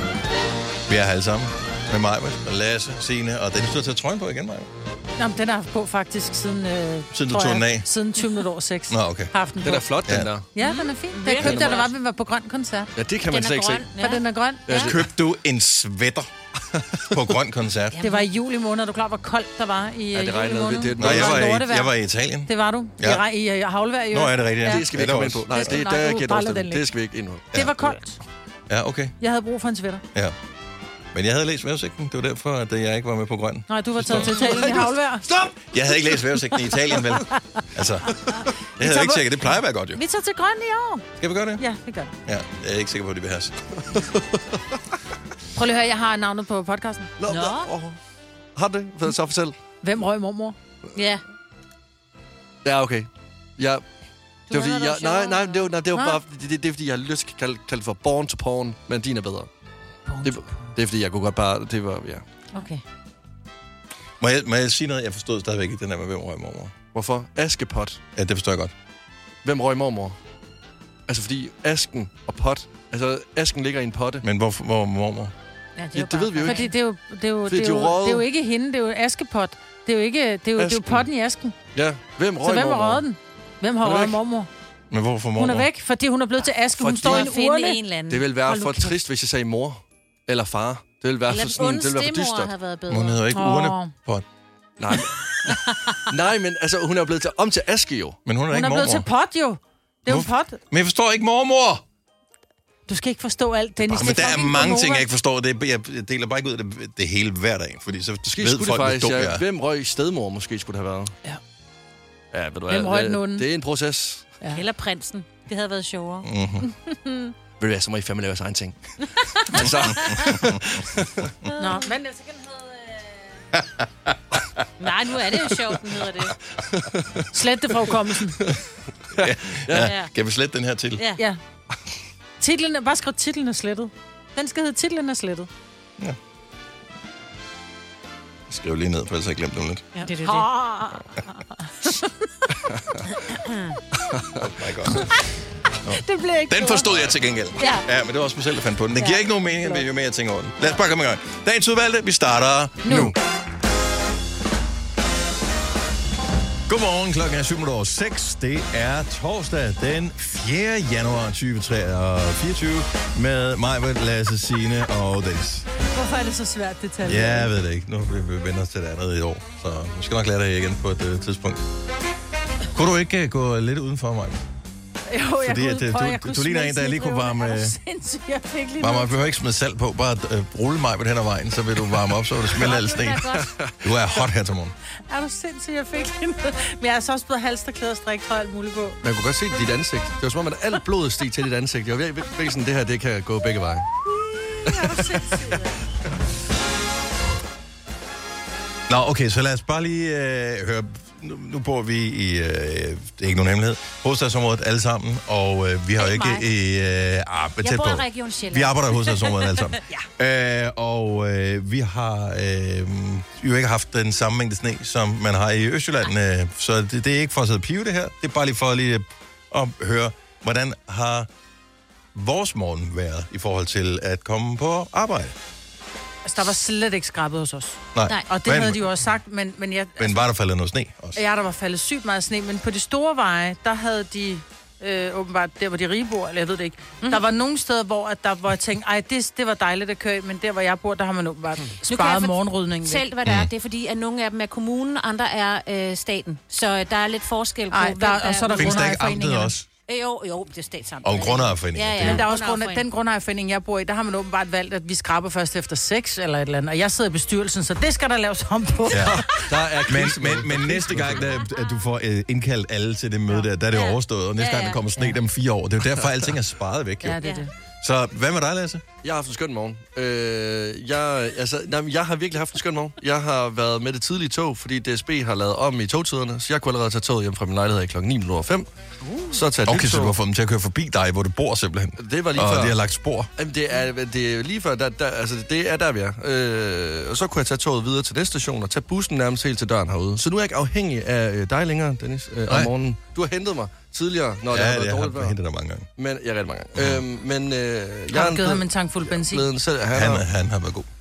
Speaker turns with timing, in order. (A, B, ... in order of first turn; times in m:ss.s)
0:00.9-0:04.7 A
0:05.2-0:09.9 B
0:07.1-0:07.9 A
0:08.9-0:09.3 A
0:09.6-0:10.5 C
0:10.0-0:10.3 A
0:10.5-0:12.9 B
0:10.6-0:11.9 D
0:11.3-0:11.9 C
0:13.0-0:13.8 C
0:13.3-0:14.9 D
0:14.0-0:14.8 B
0:14.7-0:15.1 C
0:14.8-0:16.3 A
0:17.1-0:18.0 A
0:17.9-0:18.3 D
0:18.0-0:21.9 B
0:20.1-0:21.5 C
0:21.0-0:23.2 A
0:22.5-0:24.9 B
0:24.1-0:25.8 A
0:24.6-0:28.0 C
0:25.5-0:26.9 B
0:27.5-0:28.2 B
0:28.7-0:29.2 A
0:29.2-0:30.0 B
0:31.1-0:34.5 A
0:33.7-0:35.3 B
0:34.2-0:35.6 C
0:35.6-0:40.0 A
0:38.8-0:41.1 B
0:41.2-0:41.6 A
0:41.6-0:42.1 B
0:42.3-0:43.6 A
0:43.9-0:44.8 C
0:45.6-0:47.1 B
0:47.2-0:48.0 C
0:47.3-0:47.7 D
0:48.6-0:49.6 C
0:49.8-0:50.6 B
0:51.0-0:51.2 D
0:52.6-0:53.8 C
0:54.5-0:59.5 C
0:54.5-0:55.7 D
0:55.9-0:56.2 B
1:00.1-1:00.3 B
1:00.2-1:02.2 C
1:02.5-1:02.8 D
1:04.2-1:06.7 A
1:06.9-1:08.0 C
1:08.2-1:08.7 A
1:09.4-1:10.2 C
1:11.1-1:14.2 C
1:14.2-1:15.3 A
1:15.8-1:16.7 D
1:15.9-1:16.7 C
1:16.4-1:21.6 B
1:17.5-1:18.3 C
1:20.6-1:21.1 C
1:21.8-1:23.0 C
1:22.4-1:24.5 B
1:23.8-1:24.2 C
1:24.9-1:25.7 A
1:25.4-1:27.8 B
1:26.8-1:27.3 C
1:27.0-1:29.0 D
1:28.1-1:32.5 C
1:31.3-1:33.2 D
1:32.9-1:34.2 A
1:33.3-1:33.9 B
1:34.8-1:38.2 C
1:38.2-1:39.1 A
1:38.5-1:40.6 B
1:40.1-1:41.8 A
1:42.9-1:45.0 B
1:43.9-1:49.4 A
1:48.3-1:51.1 C
1:52.3-1:54.3 C
1:52.7-1:53.5 B
1:54.5-1:56.3 D
1:56.2-1:56.7 A
1:56.7-1:57.3 B
1:57.6-2:01.3 C
1:59.5-2:00.2 D
1:59.9-2:00.6 A
2:01.6-2:02.7 B
2:03.5-2:04.6 A
2:04.8-2:06.4 D
2:06.6-2:07.3 C
2:07.3-2:08.4 B
2:09.1-2:09.9 C
2:09.2-2:11.0 A
2:09.8-2:10.1 D
2:11.0-2:11.2 D
2:12.4-2:15.5 B
2:18.5-2:19.9 A
2:20.0-2:22.1 B
2:20.0-2:20.6 D
2:23.5-2:23.8 D
2:24.1-2:24.4 C
2:24.4-2:25.3 A
2:25.8-2:33.1 A
2:25.9-2:26.9 B
2:29.0-2:29.8 B
2:32.8-2:33.1 B
2:32.9-2:33.2 C
2:36.7-2:45.7 A
2:45.9-2:47.5 B
2:47.0-2:51.7 A
2:52.7-2:54.4 A
2:55.1-2:59.3 B
2:55.4-2:57.8 A
2:58.8-3:04.7 A
3:02.6-3:03.5 D
3:03.2-3:03.9 C
3:05.1-3:09.0 B
3:09.0-3:13.9 C
3:14.5-3:15.7 B
3:14.6-3:15.3 C
3:18.9-3:41.3 A
3:26.0-3:26.5 D
3:27.6-3:30.0 D
3:42.1-3:45.4 A
3:46.2-3:50.3 B
3:47.9-3:48.8 A
3:50.0-3:51.2 A
3:51.2-4:03.0 B
4:01.9-4:08.9 D
4:07.7-4:09.5 B
4:08.6-4:09.7 A
4:09.9-4:12.8 D
4:11.0-4:12.2 A
4:12.0-4:19.5 B
4:18.9-4:21.2 C
4:18.9-4:27.2 A
4:23.7-4:24.8 D
4:27.0-4:27.5 B
4:27.8-4:28.8 A
4:29.0-4:38.7 C
4:39.1-4:39.4 B
4:39.3-4:40.2 C
4:39.6-4:43.3 A
4:42.0-4:42.8 C
4:43.4-4:55.4 C
4:52.5-4:52.7 A
4:54.5-4:55.9 A
4:56.0-5:00.2 C
4:56.8-4:57.0 A
4:58.1-4:59.5 B
4:59.9-5:00.9 A